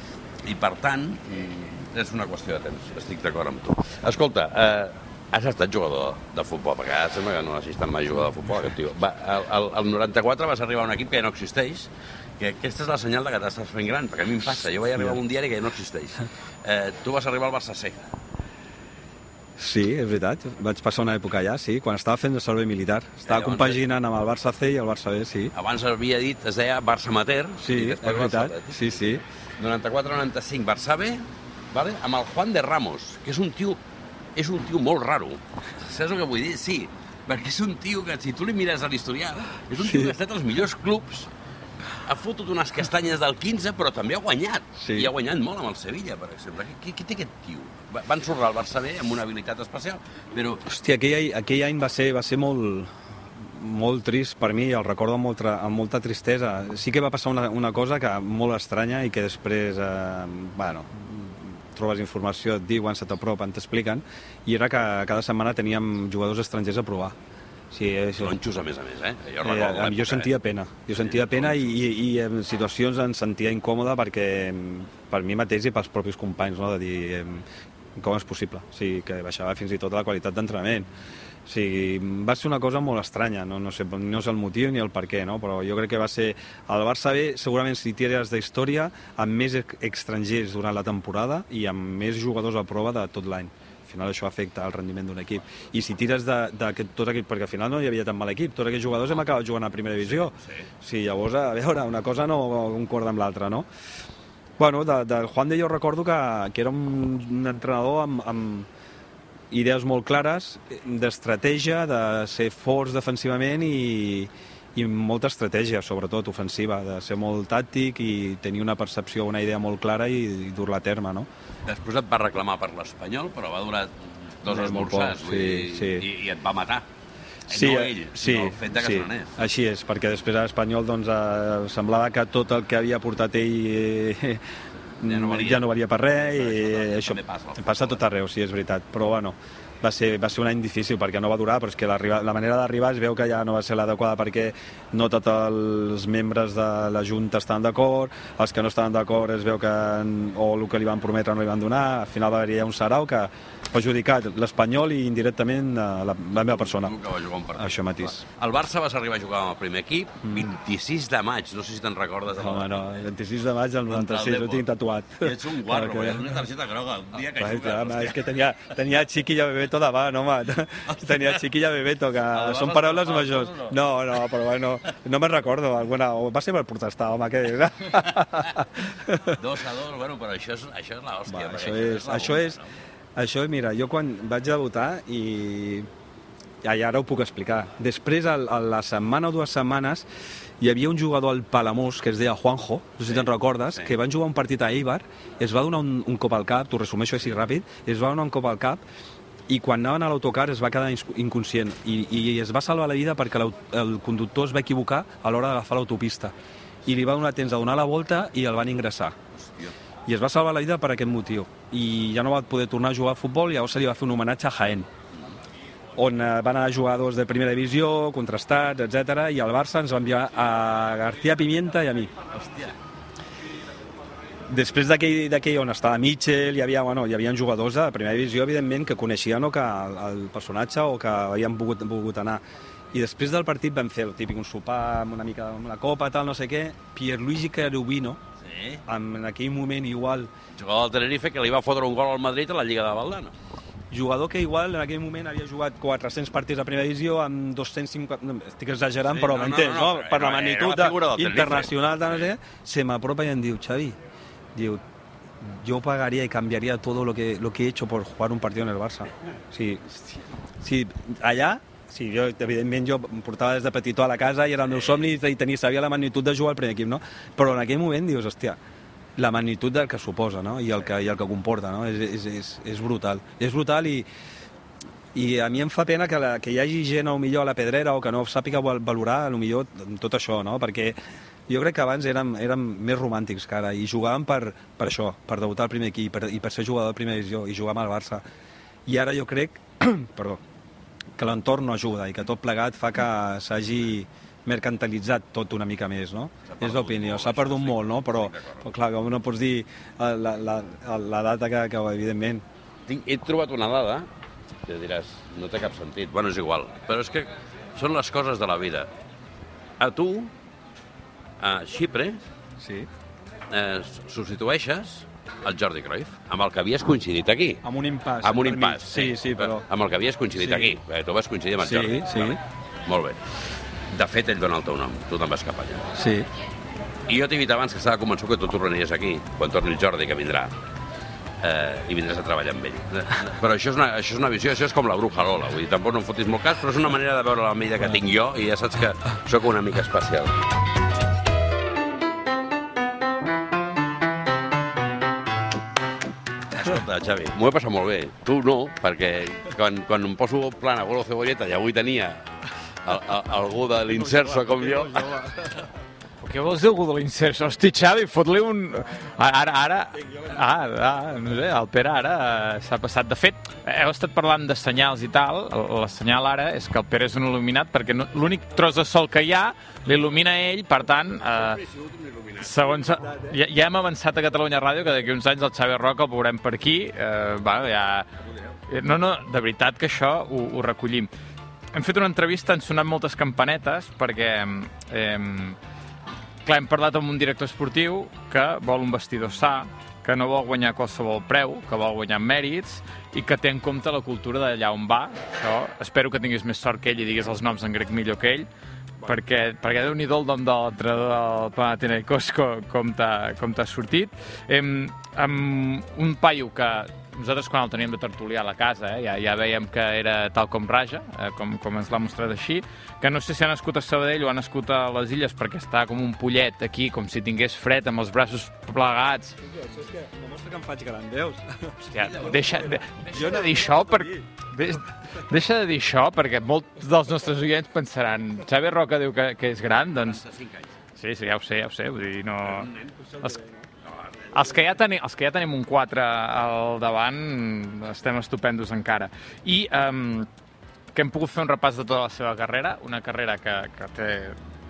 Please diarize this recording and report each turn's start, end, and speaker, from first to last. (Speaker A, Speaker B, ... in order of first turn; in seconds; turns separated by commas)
Speaker A: 0.4-18.0, Speaker B: 19.6-25.5, Speaker A: 23.2-23.8, Speaker A: 25.5-33.8, Speaker B: 27.6-29.2, Speaker A: 34.4-41.3, Speaker B: 39.8-40.1, Speaker A: 42.0-50.7, Speaker B: 44.8-45.1, Speaker B: 50.7-52.9, Speaker B: 53.5-67.1, Speaker B: 67.7-68.3, Speaker A: 68.2-70.3, Speaker B: 69.4-77.4, Speaker A: 71.0-71.7, Speaker B: 78.0-80.9, Speaker B: 81.5-103.7, Speaker A: 100.1-100.7, Speaker B: 104.6-108.7, Speaker B: 109.5-121.3, Speaker A: 121.7-126.8, Speaker B: 124.5-126.1, Speaker A: 127.5-129.4, Speaker B: 127.5-134.4, Speaker B: 135.0-156.9, Speaker A: 135.0-138.0, Speaker A: 156.4-162.9, Speaker B: 157.6-158.2, Speaker B: 162.3-166.2, Speaker A: 163.9-164.7, Speaker A: 165.2-168.3, Speaker B: 167.3-179.4, Speaker A: 170.9-171.4, Speaker A: 172.3-173.8, Speaker A: 179.3-182.7, Speaker B: 181.3-182.6, Speaker B: 183.2-185.9, Speaker B: 186.6-190.1, Speaker B: 190.6-198.8, Speaker A: 193.1-193.9, Speaker B: 199.5-206.3, Speaker B: 206.8-209.1, Speaker A: 209.3-209.7, Speaker B: 210.1-214.9, Speaker B: 216.0-222.1, Speaker A: 222.3-222.8, Speaker B: 224.5-232.4, Speaker B: 232.9-238.2, Speaker A: 238.4-238.8, Speaker B: 238.8-240.3, Speaker A: 240.6-243.3, Speaker B: 243.9-253.9, Speaker A: 249.1-252.3, Speaker B: 254.5-254.8, Speaker B: 255.4-259.8, Speaker B: 260.6-268.6, Speaker B: 269.2-274.1, Speaker B: 275.1-281.0, Speaker B: 281.5-288.2, Speaker B: 288.9-290.4, Speaker B: 291.2-302.4, Speaker A: 296.4-298.6, Speaker A: 302.9-304.1, Speaker A: 304.6-308.9, Speaker A: 309.8-310.3, Speaker A: 311.4-312.2, Speaker B: 312.6-312.9, Speaker A: 313.5-317.6, Speaker B: 317.6-319.6, Speaker A: 318.2-323.2, Speaker B: 320.4-320.7, Speaker B: 321.6-322.4, Speaker A: 323.9-325.9, Speaker B: 325.9-326.3, Speaker A: 327.1-330.5, Speaker A: 331.4-340.3, Speaker A: 346.5-352.3, Speaker A: 352.8-355.6, Speaker C: 356.2-371.6, Speaker A: 371.6-373.0, Speaker C: 372.4-378.1, Speaker C: 378.7-381.1, Speaker C: 381.7-385.6, Speaker C: 386.4-398.5, Speaker C: 399.0-419.4, Speaker B: 419.6-422.5, Speaker C: 421.9-430.2, Speaker A: 422.1-422.4, Speaker B: 423.1-424.2, Speaker A: 430.1-430.7, Speaker C: 430.9-433.4, Speaker C: 434.3-440.3, Speaker C: 440.9-444.4